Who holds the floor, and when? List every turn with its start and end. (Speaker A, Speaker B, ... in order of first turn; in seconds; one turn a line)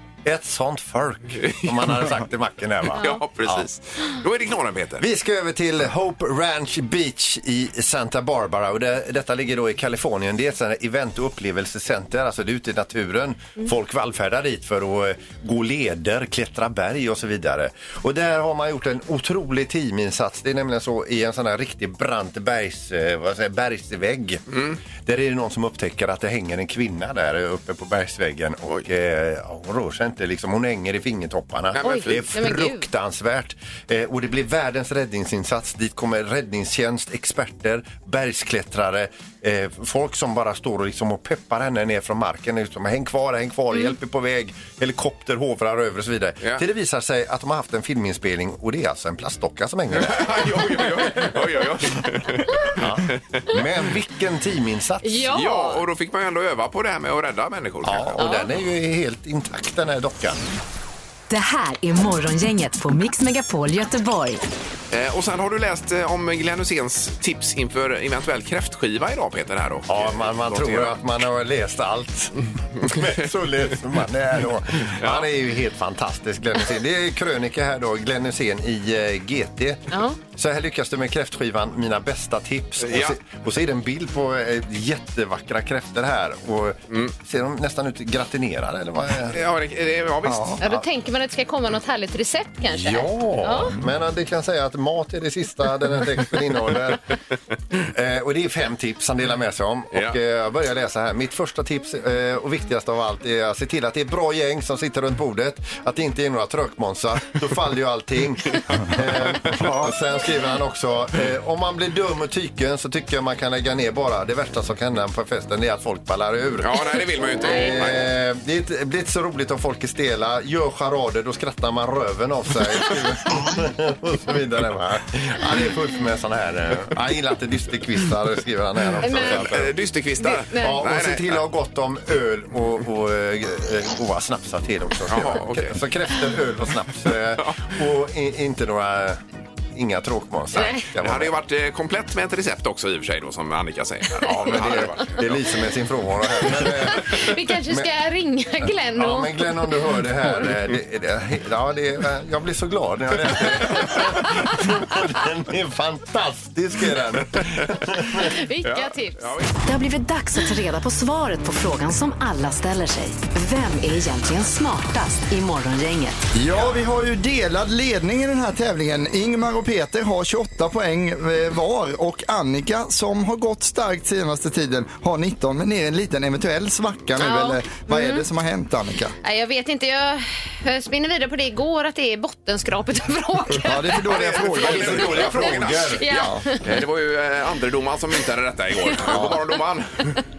Speaker A: 0.2-3.7
Speaker B: 1.4-1.9
Speaker B: 3.0-5.0
Speaker A: 5.0-51.4
Speaker B: 24.5-24.8
Speaker B: 31.7-32.3
Speaker C: 31.8-32.9
Speaker B: 49.9-53.6
Speaker A: 52.8-55.3
Speaker C: 55.0-55.8
Speaker B: 55.3-58.2
Speaker A: 57.8-60.5
Speaker C: 58.2-58.5
Speaker D: 61.3-64.4
Speaker B: 64.9-71.0
Speaker A: 69.9-89.4
Speaker B: 72.8-73.1
Speaker B: 74.9-75.3
Speaker C: 79.9-80.2
Speaker B: 82.8-83.2
Speaker B: 89.3-90.6
Speaker E: 90.2-90.6
Speaker C: 90.6-93.7
Speaker A: 92.7-97.0
Speaker A: 97.8-129.8
Speaker E: 109.6-109.9
Speaker B: 116.6-118.1
Speaker C: 117.4-117.8
Speaker C: 129.0-129.5
Speaker B: 129.0-131.4
Speaker C: 130.2-130.8
Speaker A: 130.6-139.2
Speaker B: 135.1-135.8
Speaker A: 139.7-141.3
Speaker C: 140.5-140.9
Speaker B: 141.0-145.4
Speaker A: 144.3-147.9
Speaker C: 146.5-149.8
Speaker A: 148.9-158.3
Speaker C: 158.1-159.3
Speaker B: 158.6-159.6
Speaker D: 159.7-166.2
Speaker E: 166.3-179.2
Speaker C: 177.2-178.2
Speaker C: 179.2-184.1
Speaker E: 183.6-185.5
Speaker B: 184.1-189.9
Speaker A: 184.1-186.1
Speaker C: 185.1-186.7